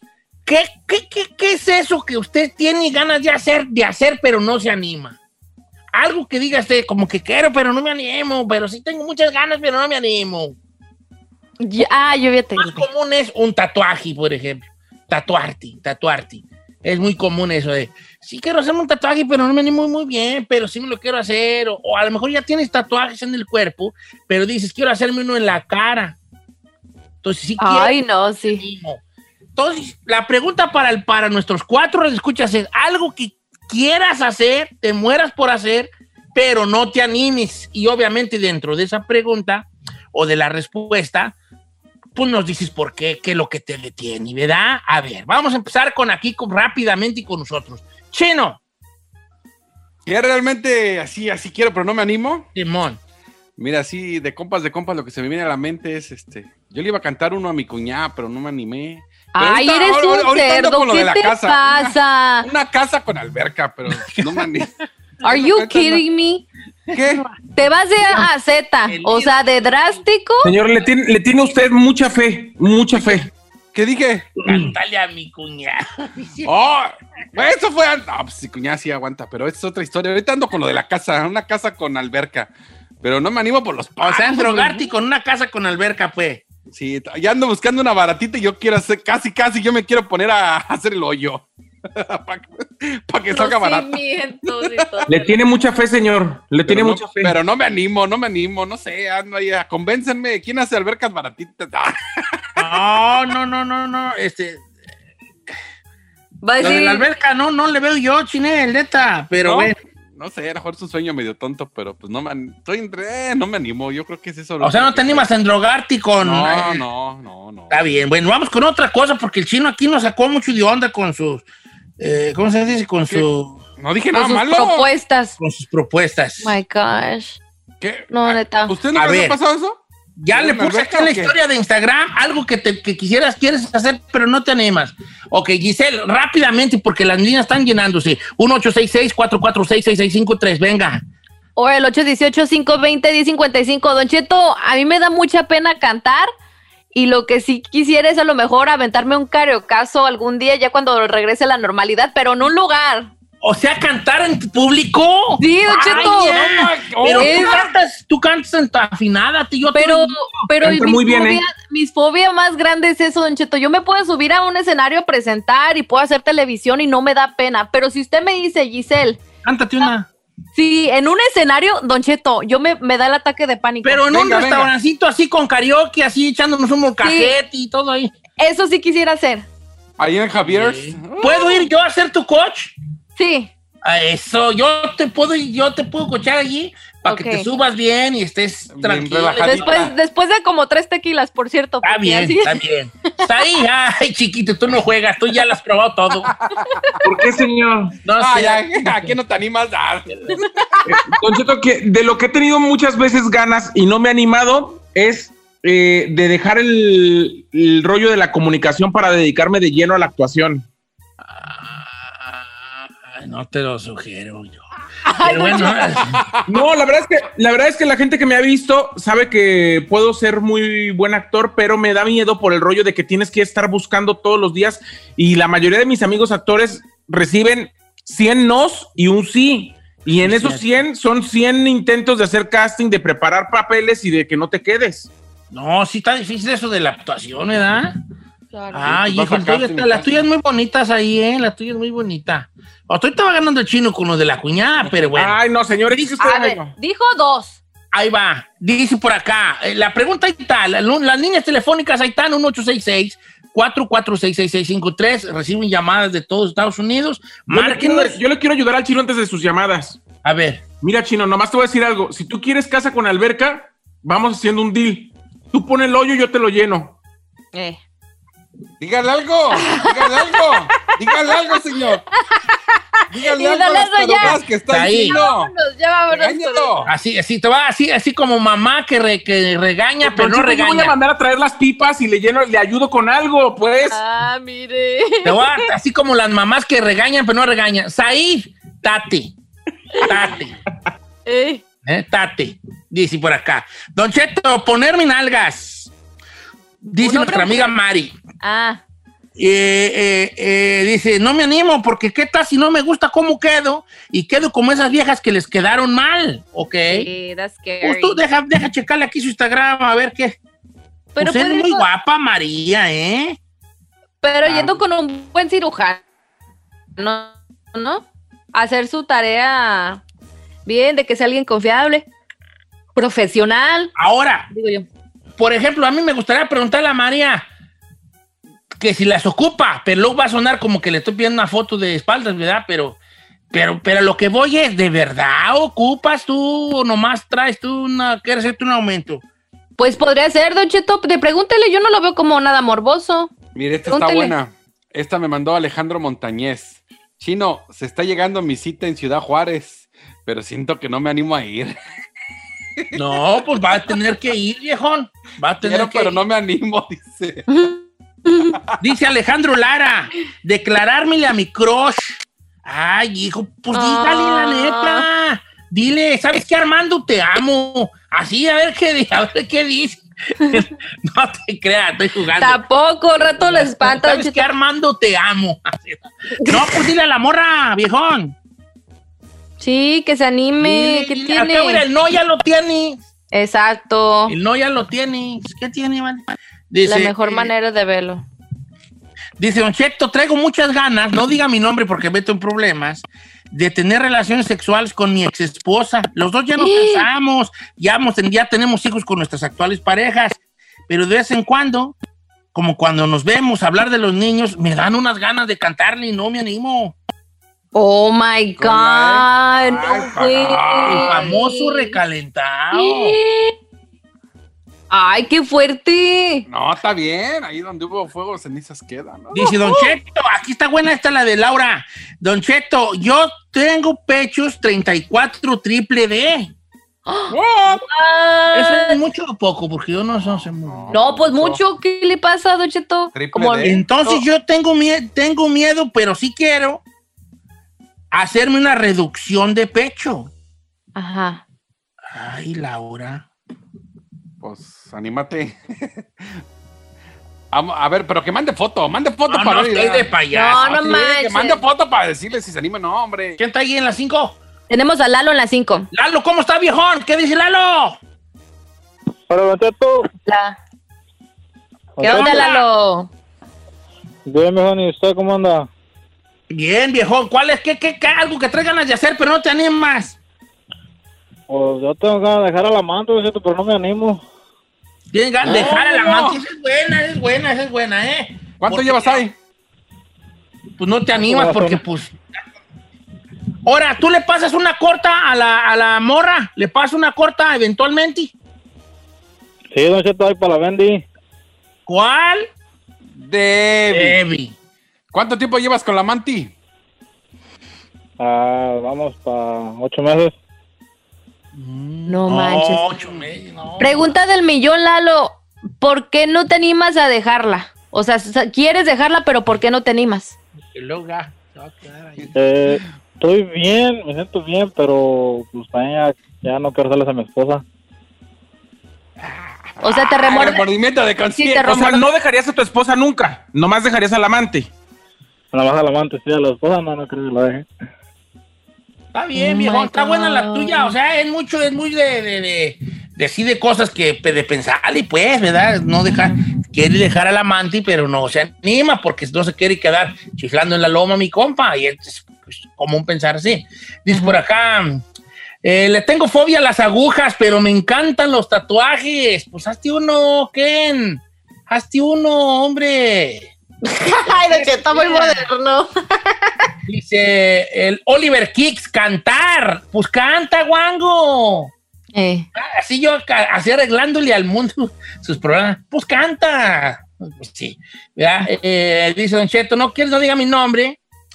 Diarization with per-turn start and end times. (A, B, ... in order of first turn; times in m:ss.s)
0:00.5-0:05.2 A
0:05.9-0:10.6 A
0:11.6-0:12.9 B
0:12.6-0:26.2 A
0:27.2-0:28.0 A
0:27.6-0:28.7 B
0:28.5-0:29.0 A
0:29.6-0:41.4 A
0:42.2-0:48.6 A
0:50.1-0:52.5 C
0:52.6-0:53.0 A
0:53.6-1:06.0 C
0:59.3-1:02.5 B
1:03.9-1:04.5 A
1:05.2-1:06.4 B
1:06.9-1:07.2 C
1:06.9-1:07.3 A
1:07.6-1:10.5 B
1:08.9-1:10.0 A
1:10.4-1:13.3 D
1:13.0-1:13.2 A
1:13.7-1:14.3 C
1:14.4-1:16.5 A
1:16.4-1:22.5 C
1:23.0-1:24.9 C
1:24.0-1:26.4 A
1:26.7-1:35.0 C
1:33.3-1:35.3 B
1:35.1-1:37.3 D
1:36.7-1:42.6 C
1:42.6-1:44.6 A
1:46.4-1:47.1 B
1:46.6-1:49.8 A
1:49.4-1:55.3 C
1:54.6-1:56.8 A
1:56.2-1:57.8 C
1:57.7-2:01.5 A
2:02.0-2:03.6 A
2:03.1-2:04.9 C
2:04.1-2:05.4 B
2:05.4-2:06.6 A
2:06.4-2:07.4 B
2:07.8-2:09.8 C
2:08.1-2:08.8 B
2:09.0-2:09.4 A
2:10.2-2:21.0 A
2:10.3-2:11.3 C
2:21.6-2:26.3 B
2:26.9-2:33.1 B
2:33.4-2:40.3 A
2:35.4-2:36.4 B
2:35.9-2:37.7 C
2:37.2-2:37.6 B
2:39.7-2:49.2 B
2:40.6-2:41.4 D
2:49.4-2:50.1 A
2:50.6-2:54.0 B
2:53.8-2:58.1 A
2:54.1-2:54.7 C
2:57.0-2:57.4 B
2:58.4-2:59.5 B
3:00.0-3:01.6 C
3:00.4-3:02.8 A
3:03.2-3:03.5 B
3:03.8-3:09.7 A
3:07.1-3:07.5 B
3:08.7-3:09.9 C
3:09.4-3:12.6 B
3:11.8-3:16.3 A
3:16.3-3:16.7 C
3:16.7-3:17.0 B
3:17.0-3:18.0 D
3:18.0-3:19.2 A
3:18.2-3:20.8 C
3:20.9-3:30.7 D
3:31.3-3:34.6 A
3:35.1-3:35.8 B
3:35.2-3:36.3 A
3:35.8-3:36.6 C
3:36.5-3:55.1 D
3:50.1-3:50.6 A
3:55.5-3:58.0 A
3:58.5-3:58.9 B
3:58.7-4:06.1 A
3:58.8-4:00.2 C
4:05.2-4:06.7 D
4:06.2-4:07.6 B
4:07.9-4:18.2 A
4:17.5-4:20.0 D
4:20.2-4:20.6 A
4:20.8-4:27.0 D
4:27.5-4:27.8 B
4:28.8-4:32.0 C
4:29.5-4:30.4 B
4:31.2-4:31.6 B
4:33.1-4:35.5 C
4:33.2-4:36.9 B
4:34.7-4:35.2 A
4:36.1-4:36.9 C
4:36.9-4:41.0 A
4:40.0-4:44.0 D
4:43.9-4:45.7 B
4:45.2-4:49.4 A
4:50.0-4:50.6 A
4:51.3-4:51.6 B
4:51.8-4:55.9 A
4:56.8-4:58.2 A
4:57.0-4:57.8 B
4:58.4-4:58.8 B
4:59.4-5:07.1 A
5:06.9-5:08.2 B
5:07.8-5:10.4 A
5:11.2-5:11.9 B
5:11.2-5:13.4 A
5:14.2-5:16.0 B
5:14.4-5:14.8 A
5:17.0-5:20.0 B
5:20.7-5:22.1 B
5:23.0-5:23.9 B
5:24.0-5:24.5 A
5:24.5-5:24.8 B
5:25.4-5:27.5 A
5:28.7-5:33.0 A
5:33.5-5:39.2 A
5:39.8-5:43.3 B
5:43.6-5:51.8 C
5:43.9-5:44.3 B
5:53.0-5:56.2 A
5:55.6-5:57.5 C
5:57.5-5:58.6 B
5:58.8-6:12.6 A
6:03.7-6:05.1 B
6:12.4-6:14.5 B
6:13.4-6:18.4 A
6:16.4-6:16.8 B
6:19.6-6:21.8 B
6:20.6-6:23.0 A
6:23.3-6:24.4 B
6:24.3-6:27.5 A
6:26.8-6:28.2 B
6:29.4-6:42.0 A
6:36.6-6:37.1 B
6:42.5-6:47.0 A
6:47.8-6:52.0 B
6:48.6-6:51.2 C
6:50.9-6:53.2 A
6:52.7-6:53.5 B
6:54.9-6:56.5 B
6:56.5-6:59.9 C
6:59.3-7:06.5 A
7:07.1-7:09.0 B
7:07.3-7:07.8 C
7:08.5-7:11.1 A
7:10.2-7:11.6 C
7:10.9-7:14.2 B
7:13.1-7:13.8 C
7:13.6-7:16.8 A
7:18.1-7:20.3 A
7:21.0-7:21.4 B
7:22.1-7:23.3 A
7:24.4-7:26.4 C
7:27.5-7:33.4 C
7:29.3-7:30.8 A
7:30.3-7:31.6 B
7:33.4-7:34.4 A
7:34.7-7:35.9 B
7:35.9-7:38.0 A
7:39.3-7:40.1 E
7:40.3-7:40.6 B
7:42.0-7:42.5 E
7:42.0-7:43.1 B
7:42.0-7:42.6 A
7:44.3-7:45.7 E
7:46.5-7:50.2 A
7:51.5-7:54.2 E
7:55.1-7:59.2 A
7:55.4-7:56.4 C
7:58.6-7:59.4 C
8:00.8-8:02.2 A
8:01.2-8:01.8 E
8:03.6-8:08.3 A
8:09.7-8:11.1 E
8:11.9-8:12.5 A
8:13.2-8:14.2 C
8:13.9-8:14.6 A
8:15.1-8:16.5 C
8:18.2-8:20.4 E
8:21.5-8:24.2 A
8:22.1-8:22.9 B
8:23.8-8:30.4 B
8:30.7-8:32.3 A
8:32.2-8:32.8 C
8:32.4-8:37.6 E
8:39.3-8:42.0 C
8:39.8-8:40.6 B
8:41.4-8:42.0 B
8:41.6-8:44.7 D
8:45.5-8:47.7 E
8:49.1-9:05.0 A
8:49.4-8:51.0 B
8:56.2-8:56.5 B
9:04.1-9:04.4 B
9:05.6-9:13.5 A
9:13.8-9:16.6 B
9:14.5-9:15.5 A
9:16.8-9:21.7 A
9:22.1-9:22.5 B
9:22.6-9:31.0 A